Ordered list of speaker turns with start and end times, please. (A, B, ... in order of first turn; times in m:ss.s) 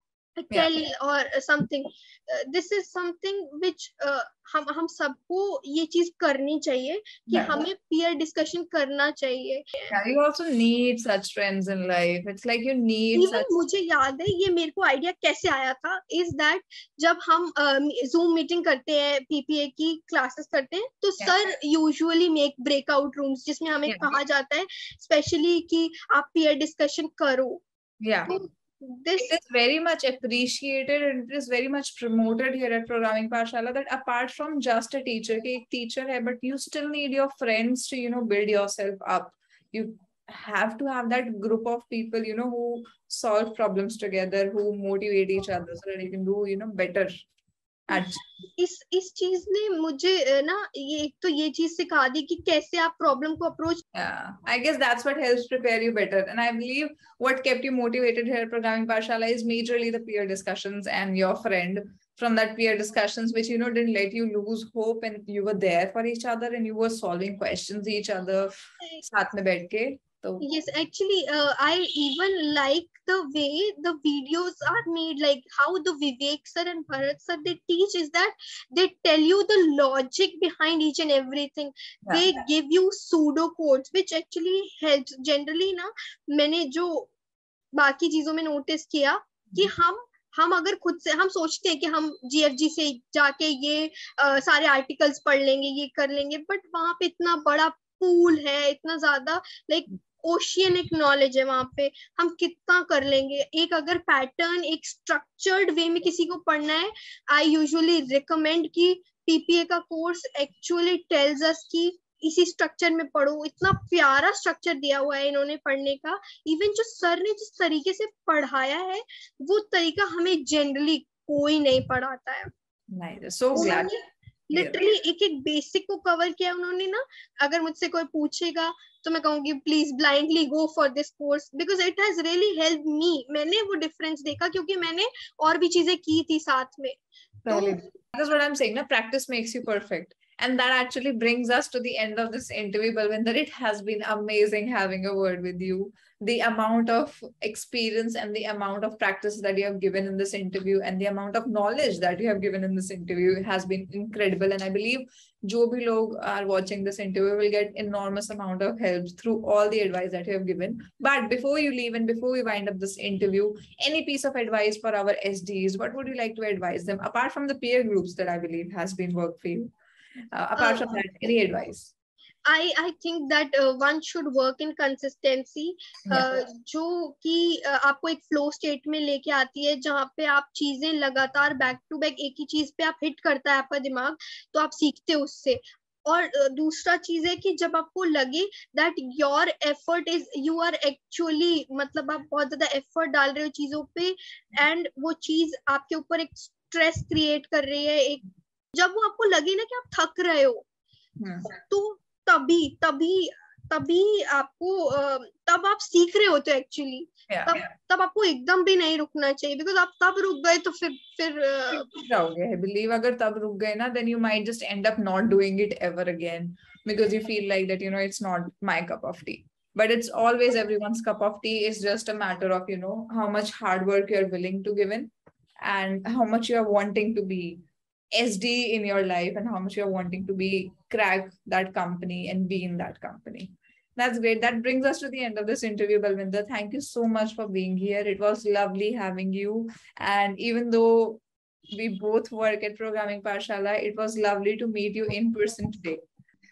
0:00.4-0:10.0 A
0:07.3-0:07.6 B
0:09.9-0:13.5 B
0:13.1-0:27.6 A
0:23.9-0:24.1 B
0:28.0-0:28.3 B
0:28.3-0:29.3 A
0:29.2-0:47.2 B
0:47.9-0:48.2 B
0:47.9-0:53.8 A
0:53.9-1:10.4 B
1:10.4-1:27.1 A
1:27.8-2:02.5 A
2:03.0-2:03.9 B
2:03.5-2:17.8 A
2:04.5-2:04.8 B
2:17.5-2:49.7 B
2:50.3-2:51.9 B
2:50.6-2:51.0 A
2:52.5-3:18.2 A
3:18.7-3:20.7 A
3:21.2-3:21.5 B
3:21.5-3:31.9 A
3:27.3-3:27.6 B
3:31.7-3:45.1 B
3:45.6-3:47.6 B
3:48.1-4:06.0 B